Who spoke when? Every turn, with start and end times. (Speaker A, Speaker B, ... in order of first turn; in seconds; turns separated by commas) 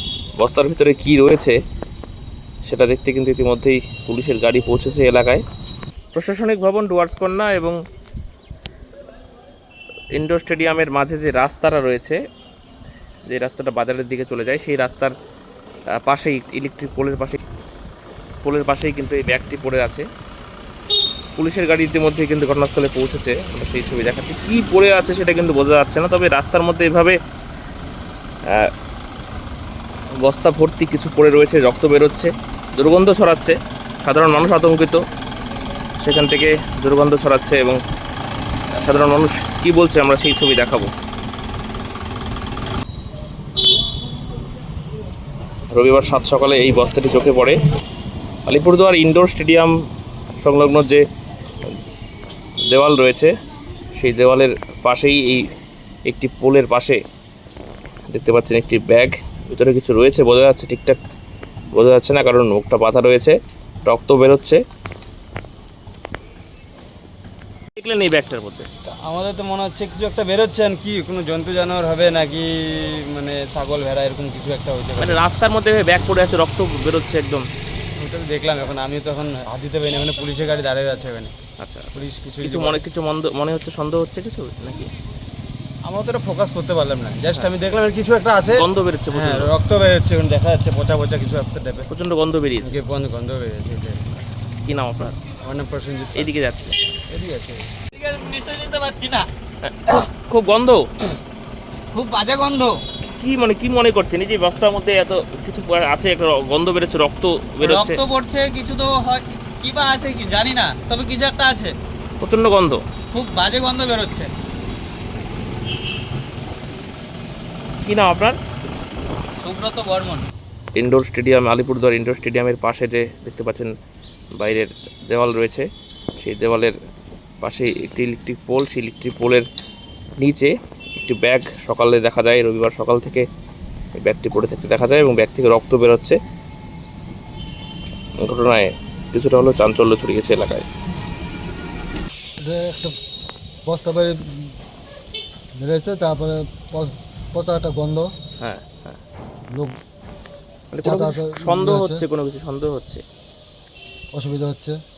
Speaker A: 0.4-1.6, Speaker A: 2.6-5.4, Speaker A: 6.1-7.8, Speaker A: 10.1-12.2, Speaker A: 13.3-15.1, Speaker A: 16.0-17.4, Speaker A: 18.4-20.1, Speaker A: 21.4-27.2, Speaker A: 30.2-35.0, Speaker A: 36.0-37.8, Speaker A: 38.8-40.9, Speaker A: 45.7-47.6, Speaker A: 48.5-49.7, Speaker A: 50.4-51.0, Speaker A: 52.7-53.3, Speaker A: 54.0-55.5, Speaker A: 56.1-57.0, Speaker A: 58.1-61.0, Speaker A: 61.7-64.6, Speaker A: 67.8-68.7, Speaker B: 69.0-75.2, Speaker A: 75.0-77.5, Speaker B: 78.0-81.3, Speaker A: 81.6-84.9, Speaker B: 81.9-82.8, Speaker B: 85.8-91.9, Speaker A: 88.5-89.5, Speaker A: 91.9-92.7, Speaker B: 92.6-94.1, Speaker A: 94.6-95.2, Speaker B: 95.4-96.3, Speaker A: 96.1-96.8, Speaker B: 97.1-97.6, Speaker C: 98.0-99.3, Speaker A: 99.6-100.8, Speaker C: 101.9-102.8, Speaker A: 103.2-108.0, Speaker C: 107.6-111.7, Speaker A: 112.2-112.8, Speaker C: 113.1-114.3, Speaker A: 117.8-118.4, Speaker C: 119.4-120.2, Speaker A: 120.8-123.7, Speaker A: 124.3-125.7, Speaker A: 126.2-126.7, Speaker A: 127.4-129.5, Speaker A: 130.2-133.2, Speaker A: 134.0-136.2, Speaker A: 138.2-140.7, Speaker D: 142.4-142.9, Speaker D: 143.7-144.5, Speaker D: 145.6-148.1, Speaker A: 148.4-149.0, Speaker A: 150.7-153.0, Speaker D: 150.8-152.0, Speaker D: 154.1-154.8